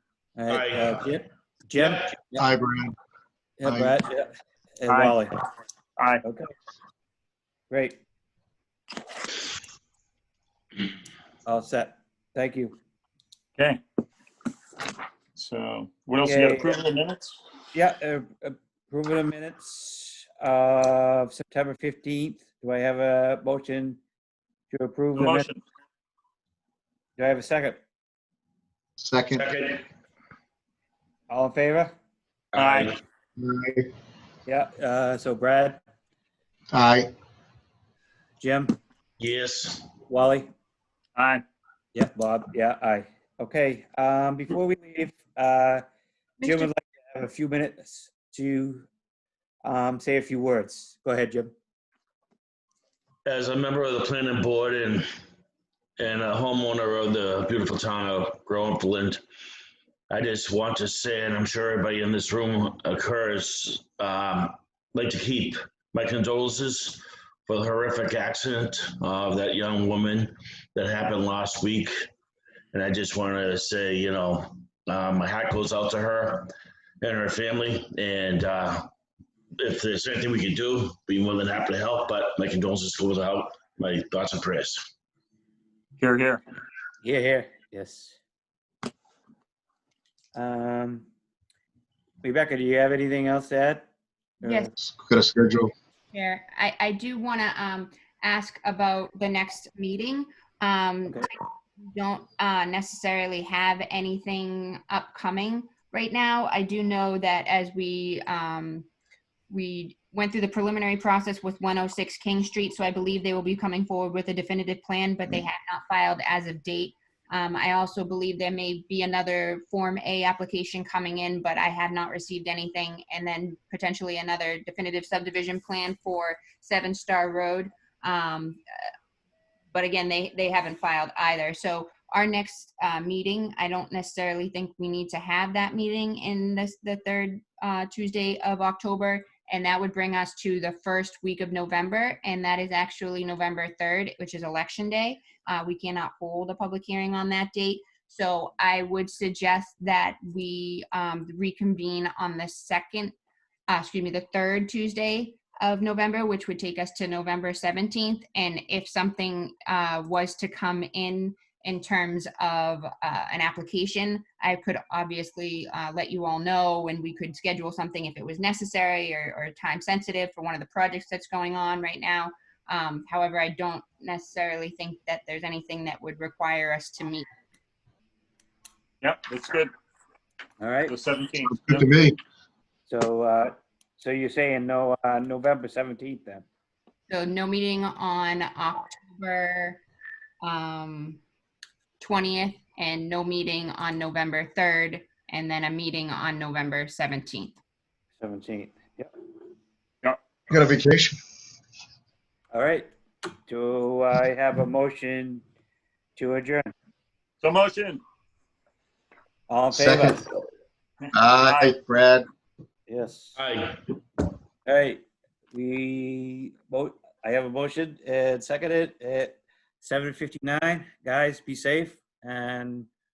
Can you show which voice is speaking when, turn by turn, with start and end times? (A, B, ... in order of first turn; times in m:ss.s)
0:00.4-0:02.5 A
0:00.5-0:01.0 B
0:01.8-0:02.1 B
0:02.4-0:02.9 C
0:03.6-0:05.3 A
0:03.6-0:03.9 C
0:04.9-0:05.2 D
0:06.0-0:06.2 D
0:06.2-0:06.5 A
0:07.7-0:08.0 A
0:11.4-0:12.7 A
0:13.6-0:13.8 D
0:15.4-0:17.3 D
0:16.2-0:16.8 A
0:17.7-0:24.0 A
0:24.7-0:25.5 A
0:25.2-0:25.6 D
0:27.2-0:27.8 A
0:29.0-0:29.4 C
0:29.4-0:29.8 B
0:31.3-0:31.9 A
0:32.5-0:33.0 B
0:32.5-0:32.9 D
0:33.4-0:33.8 C
0:34.4-0:35.8 A
0:36.7-0:37.1 C
0:38.4-0:38.8 A
0:39.2-0:39.9 B
0:40.1-0:40.5 A
0:41.2-0:41.4 D
0:41.9-0:45.8 A
0:46.4-0:46.7 E
0:46.4-0:48.8 A
0:49.6-0:51.5 A
0:53.2-0:55.0 B
0:56.0-0:59.2 B
1:00.1-1:12.0 B
1:12.7-1:16.5 B
1:17.0-1:18.9 B
1:19.6-1:24.8 B
1:26.0-1:26.4 D
1:27.0-1:28.2 A
1:30.3-1:31.1 A
1:32.2-1:33.8 A
1:34.4-1:34.7 E
1:34.4-1:34.7 A
1:34.8-1:35.7 C
1:36.1-1:48.9 E
1:49.5-2:08.6 E
2:09.7-2:33.1 E
2:33.7-2:57.2 E
2:59.0-2:59.7 D
3:00.6-3:00.9 A
3:00.8-3:01.9 D
3:01.6-3:02.1 C
3:02.9-3:06.4 A
3:07.1-3:09.8 E
3:10.4-3:11.2 E
3:12.0-3:17.6 E
3:18.2-3:19.1 A
3:20.5-3:21.2 C
3:22.5-3:22.9 A
3:23.5-3:25.4 A
3:26.2-3:26.7 A
3:27.4-3:28.0 D
3:29.5-3:30.2 A
3:29.7-3:30.2 C
3:31.1-3:32.2 C
3:31.1-3:31.7 D
3:32.9-3:33.4 A
3:33.4-3:33.8 B
3:34.6-3:42.9 A